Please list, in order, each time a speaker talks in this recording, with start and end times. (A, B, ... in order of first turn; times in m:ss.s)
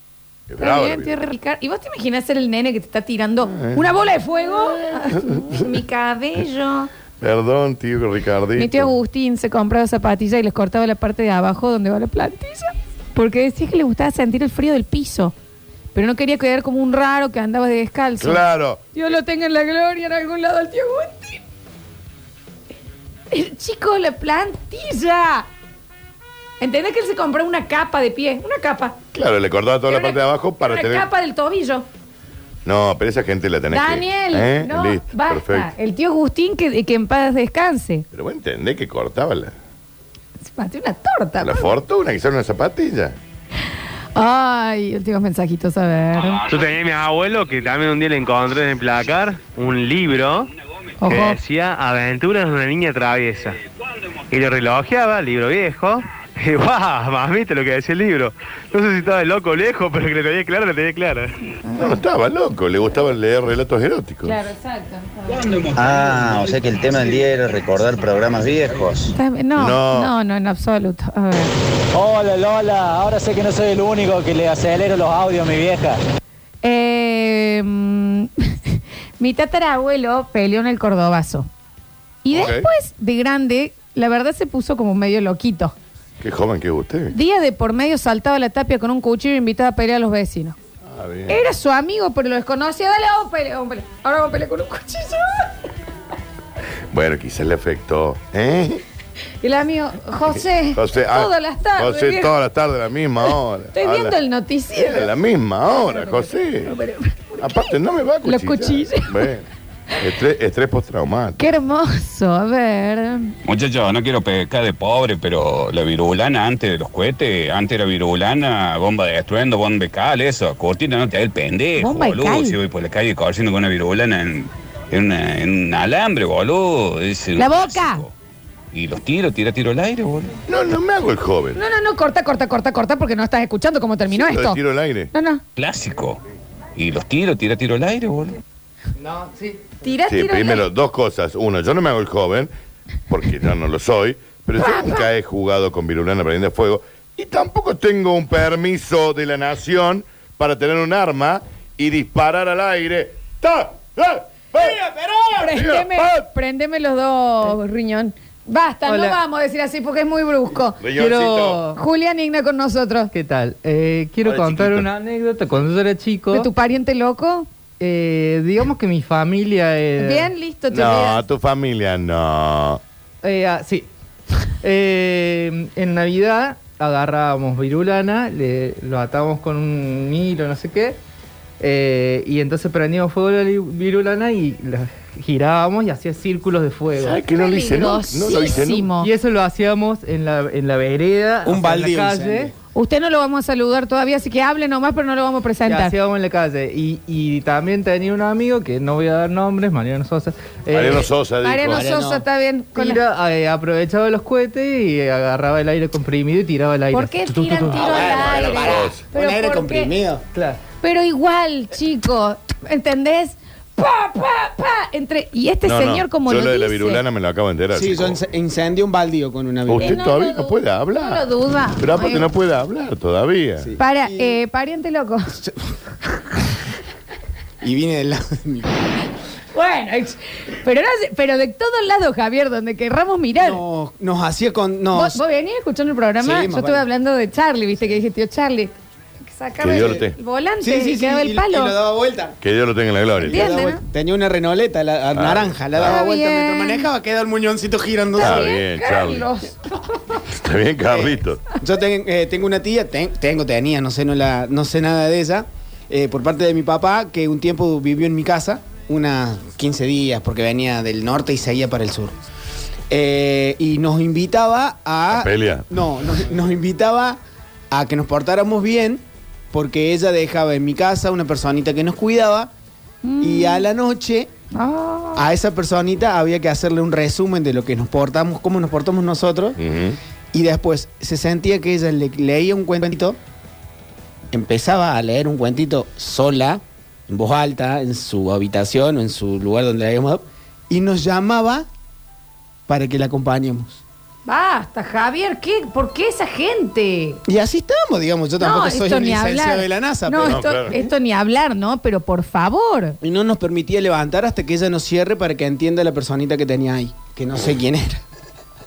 0:00.5-0:01.1 A
0:00.6-0:06.9 B
0:03.4-0:03.9 A
0:04.7-0:05.7 A
0:07.2-0:08.9 A
0:08.5-0:15.3 B
0:15.9-0:21.4 B
0:18.2-0:18.8 A
0:23.3-0:25.5 B
0:26.6-0:29.0 B
0:29.1-0:31.0 A
0:29.9-0:31.8 B
0:32.6-0:35.7 A
0:33.7-0:38.0 B
0:38.1-0:39.5 A
0:40.4-0:41.7 B
0:41.4-0:43.2 A
0:44.1-0:46.4 B
0:46.5-0:50.5 C
0:51.0-0:51.4 B
0:51.0-0:53.6 C
0:54.3-1:01.3 C
1:01.7-1:01.9 B
1:01.8-1:04.4 A
1:04.2-1:05.4 B
1:05.7-1:09.1 D
1:09.1-1:11.5 B
1:09.6-1:10.1 A
1:11.9-1:16.0 E
1:16.6-1:21.5 B
1:22.2-1:25.7 B
1:22.3-1:22.7 A
1:26.2-1:27.1 A
1:27.1-1:30.6 B
1:30.8-1:31.4 A
1:31.3-1:35.5 B
1:36.9-1:38.8 A
1:39.4-1:42.3 B
1:40.7-1:44.2 A
1:43.7-1:45.1 B
1:44.7-1:46.7 A
1:45.7-1:47.7 B
1:47.4-1:49.5 A
1:48.2-1:49.3 B
1:50.0-1:51.4 A
1:51.4-1:53.3 B
1:53.4-2:08.1 F
2:01.8-2:02.6 B
2:07.4-2:08.0 B
2:08.7-2:10.3 F
2:10.5-2:11.6 A
2:11.6-2:14.6 B
2:14.1-2:15.1 A
2:15.1-2:15.4 B
2:15.6-2:16.2 F
2:16.7-2:18.4 F
2:19.0-2:19.6 G
2:19.8-2:20.7 B
2:20.1-2:22.5 A
2:23.1-2:34.8 A
2:24.6-2:25.0 B
2:35.3-2:40.8 B
2:35.4-2:36.2 A
2:38.8-2:39.2 G
2:40.8-2:41.6 A
2:40.9-2:41.8 G
2:41.7-2:43.1 B
2:43.1-2:46.5 G
2:44.2-2:44.9 A
2:46.3-2:47.5 B
2:47.8-2:50.3 G
2:50.0-2:51.2 B
2:50.7-2:52.8 A
2:53.2-2:53.9 G
2:54.6-3:01.0 G
3:01.6-3:07.2 G
3:06.9-3:08.9 A
3:07.3-3:09.1 B
3:09.0-3:12.5 G
3:11.4-3:12.5 H
3:12.7-3:15.9 B
3:15.6-3:21.1 G
3:20.7-3:21.8 A
3:21.4-3:23.0 B
3:21.7-3:22.2 H
3:22.7-3:28.0 G
3:26.9-3:29.9 B
3:27.7-3:30.2 H
3:28.1-3:29.1 A
3:30.3-3:30.6 G
3:30.8-3:37.0 B
3:35.6-3:38.2 A
3:37.7-3:40.0 H
3:39.7-3:41.3 A
3:39.8-3:42.3 B
3:41.8-3:43.7 A
3:43.6-3:44.4 H
3:43.8-3:45.3 B
3:47.6-3:48.7 H
3:49.5-3:53.6 B
3:53.4-3:55.2 H
3:54.9-4:01.7 B
3:56.2-3:56.8 H
3:59.6-4:00.2 A
3:59.7-4:00.0 H
4:00.6-4:02.4 H
4:02.4-4:03.7 A
4:03.2-4:08.4 H
4:03.2-4:03.8 B
4:05.1-4:06.0 A
4:05.8-4:06.9 B
4:08.2-4:10.2 B
4:08.2-4:09.3 A
4:10.3-4:11.4 A
4:10.8-4:22.2 H
4:22.9-4:27.2 H
4:25.1-4:25.7 A
4:27.7-4:32.5 H
4:33.0-4:33.7 B
4:33.2-4:34.3 H
4:34.5-4:35.2 B
4:35.2-4:39.6 H
4:39.6-4:40.0 A
4:40.3-4:43.2 H
4:44.3-4:51.7 H
4:52.7-4:53.8 H
4:54.2-4:57.2 B
4:57.3-5:00.6 H
4:58.4-5:03.0 B
5:00.2-5:00.8 A
5:03.0-5:08.0 H